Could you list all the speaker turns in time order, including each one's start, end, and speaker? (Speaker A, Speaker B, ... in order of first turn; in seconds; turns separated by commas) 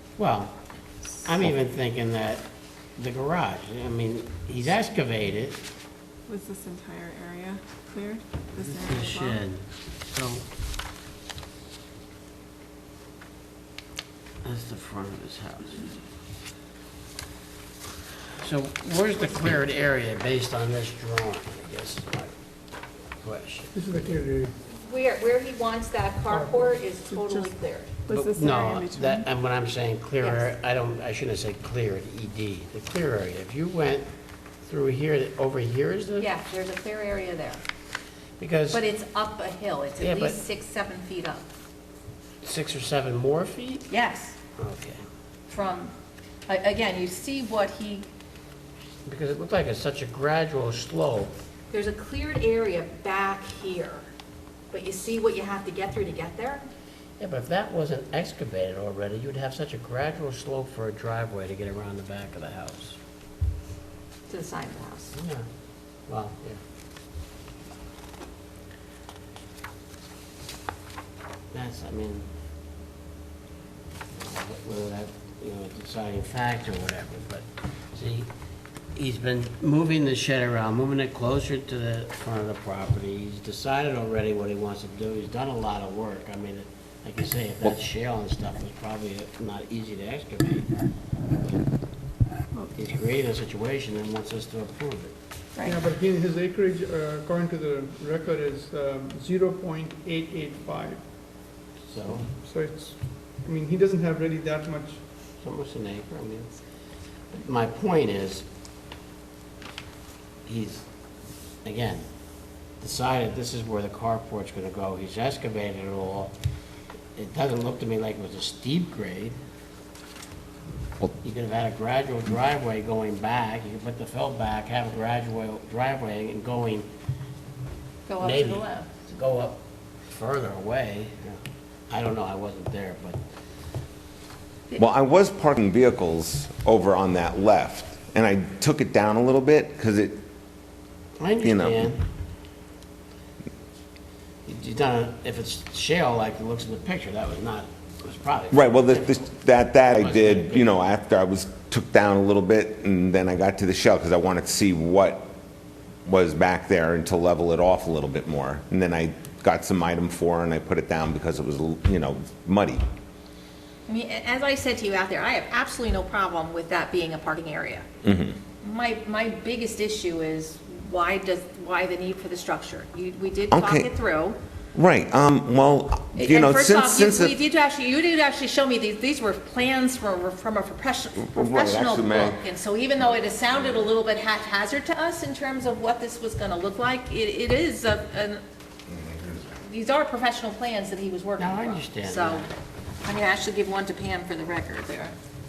Speaker A: 0.2-0.6, Speaker A: 1.2-5.6, Speaker B: 6.3-9.4, Speaker A: 8.6-10.5, Speaker A: 14.4-15.9, Speaker A: 18.4-22.3, Speaker A: 23.2-23.7, Speaker C: 23.7-24.5, Speaker D: 24.7-28.0, Speaker C: 26.3-27.2, Speaker B: 28.1-29.2, Speaker A: 28.1-34.1, Speaker D: 30.2-30.5, Speaker A: 34.6-36.3, Speaker D: 36.2-37.6, Speaker A: 38.4-38.8, Speaker D: 38.7-41.5, Speaker A: 40.0-40.4, Speaker A: 42.4-43.9, Speaker D: 43.9-44.4, Speaker A: 44.6-45.0, Speaker D: 45.5-45.9, Speaker D: 46.5-48.1, Speaker A: 49.1-51.3, Speaker D: 51.7-54.1, Speaker D: 54.7-56.7, Speaker A: 57.2-63.0, Speaker D: 64.3-65.2, Speaker A: 65.2-65.5, Speaker A: 66.1-66.6, Speaker A: 71.5-72.3, Speaker A: 74.1-78.3, Speaker A: 79.0-90.7, Speaker A: 92.8-95.1, Speaker C: 95.7-101.0, Speaker A: 101.9-102.3, Speaker C: 102.3-105.0, Speaker A: 105.4-106.5, Speaker A: 107.3-108.5, Speaker A: 110.5-110.9, Speaker A: 111.6-112.1, Speaker A: 112.8-116.3, Speaker A: 117.2-119.4, Speaker A: 121.2-126.9, Speaker D: 128.1-129.0, Speaker A: 128.2-133.2, Speaker E: 134.8-140.2, Speaker A: 141.2-142.0, Speaker E: 141.4-141.8, Speaker A: 144.5-149.3, Speaker E: 148.5-155.3, Speaker A: 149.9-150.7, Speaker E: 156.1-162.8, Speaker D: 163.9-167.9, Speaker E: 168.0-168.4, Speaker D: 168.6-174.4, Speaker E: 173.5-173.9, Speaker E: 174.8-177.4, Speaker D: 176.1-188.4, Speaker E: 181.2-182.4, Speaker E: 188.9-189.5, Speaker D: 189.6-192.5, Speaker A: 191.4-192.5, Speaker D: 193.1-195.1